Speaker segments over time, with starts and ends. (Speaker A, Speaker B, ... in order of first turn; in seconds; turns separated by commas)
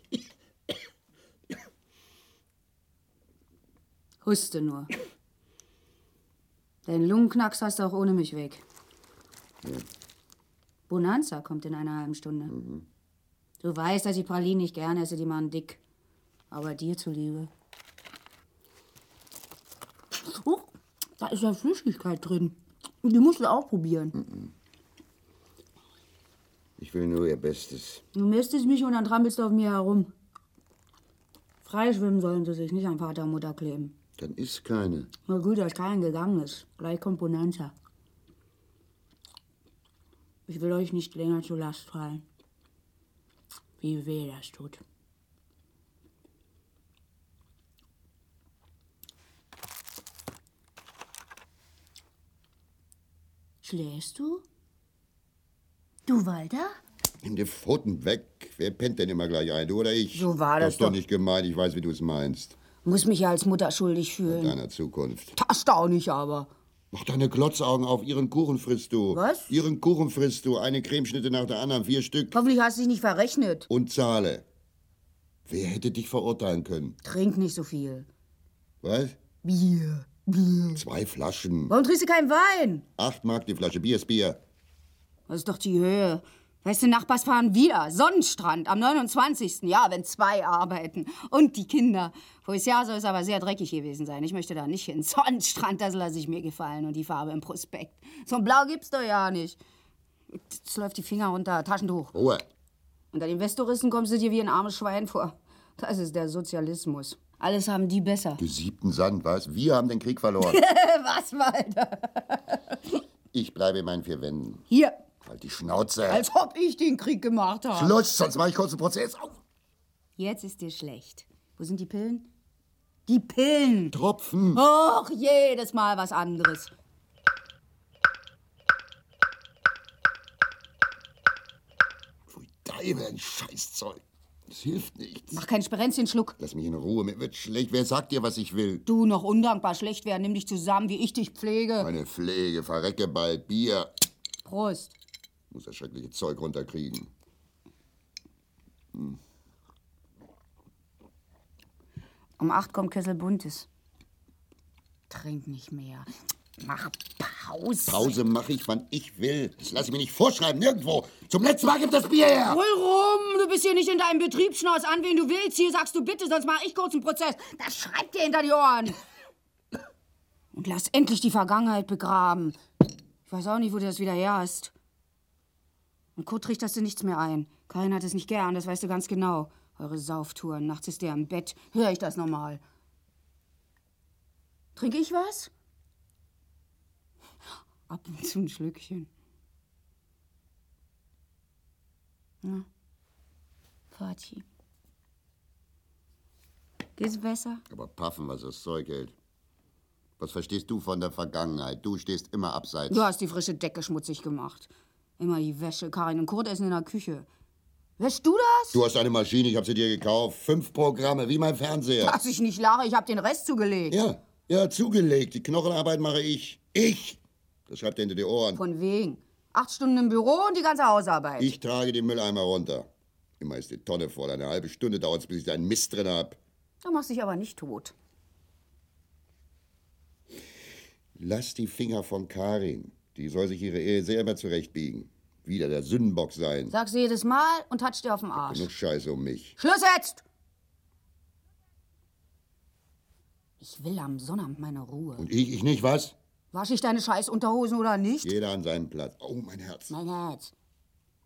Speaker A: 4.2-4.9, Speaker A: 6.8-8.6, Speaker A: 10.9-12.5, Speaker B: 12.5-12.9, Speaker A: 13.6-15.8, Speaker A: 16.5-17.5, Speaker A: 20.1-24.2, Speaker B: 24.1-24.5, Speaker B: 26.8-28.0, Speaker A: 28.1-30.1, Speaker A: 31.6-34.0, Speaker B: 34.2-35.1, Speaker A: 35.3-37.8, Speaker A: 40.5-42.2, Speaker A: 43.8-44.8, Speaker A: 53.6-54.4, Speaker A: 56.1-56.8, Speaker B: 57.2-62.6, Speaker A: 60.1-61.0, Speaker A: 62.8-64.6, Speaker B: 64.3-65.3, Speaker A: 65.4-66.5, Speaker B: 66.9-72.4, Speaker A: 69.1-69.5, Speaker A: 72.3-73.7, Speaker B: 73.7-74.5, Speaker B: 75.5-77.0, Speaker A: 77.0-78.1, Speaker B: 78.8-79.2, Speaker A: 79.4-80.8, Speaker B: 80.8-81.7, Speaker A: 81.7-82.8, Speaker B: 83.0-84.4, Speaker A: 85.3-99.6, Speaker A: 100.3-102.1, Speaker B: 102.1-102.5, Speaker A: 103.1-108.4, Speaker B: 108.4-110.6, Speaker A: 110.4-112.8, Speaker B: 113.3-114.7, Speaker A: 114.7-115.0, Speaker B: 115.2-116.3, Speaker A: 116.1-118.0, Speaker B: 117.7-119.4, Speaker A: 120.2-122.3, Speaker A: 123.1-124.0, Speaker B: 123.9-124.6, Speaker A: 124.5-126.7, Speaker B: 132.3-135.4, Speaker A: 135.3-136.4, Speaker B: 136.4-138.8, Speaker A: 138.9-141.9, Speaker B: 141.8-143.9, Speaker A: 144.4-145.0, Speaker B: 145.5-147.1, Speaker B: 148.9-149.2, Speaker A: 152.4-153.7, Speaker A: 155.1-156.1, Speaker A: 156.6-158.2, Speaker B: 157.9-162.6, Speaker A: 162.4-169.0, Speaker A: 170.5-172.6, Speaker A: 173.3-174.7, Speaker A: 176.2-182.6, Speaker A: 184.8-185.5, Speaker A: 187.9-189.1, Speaker A: 193.9-194.4, Speaker A: 197.0-197.6, Speaker B: 197.7-199.2, Speaker B: 200.2-203.1, Speaker A: 202.9-207.3, Speaker A: 208.0-208.8, Speaker B: 208.7-212.3, Speaker A: 212.0-214.0, Speaker B: 213.9-218.6, Speaker A: 218.5-221.5, Speaker B: 221.4-222.9, Speaker B: 223.4-226.4, Speaker A: 226.8-227.9, Speaker B: 231.2-236.7, Speaker A: 236.7-238.7, Speaker B: 238.4-239.6, Speaker A: 239.6-240.2, Speaker A: 243.6-245.3, Speaker B: 245.2-246.2, Speaker A: 246.5-248.3, Speaker B: 248.2-250.0, Speaker A: 249.9-250.5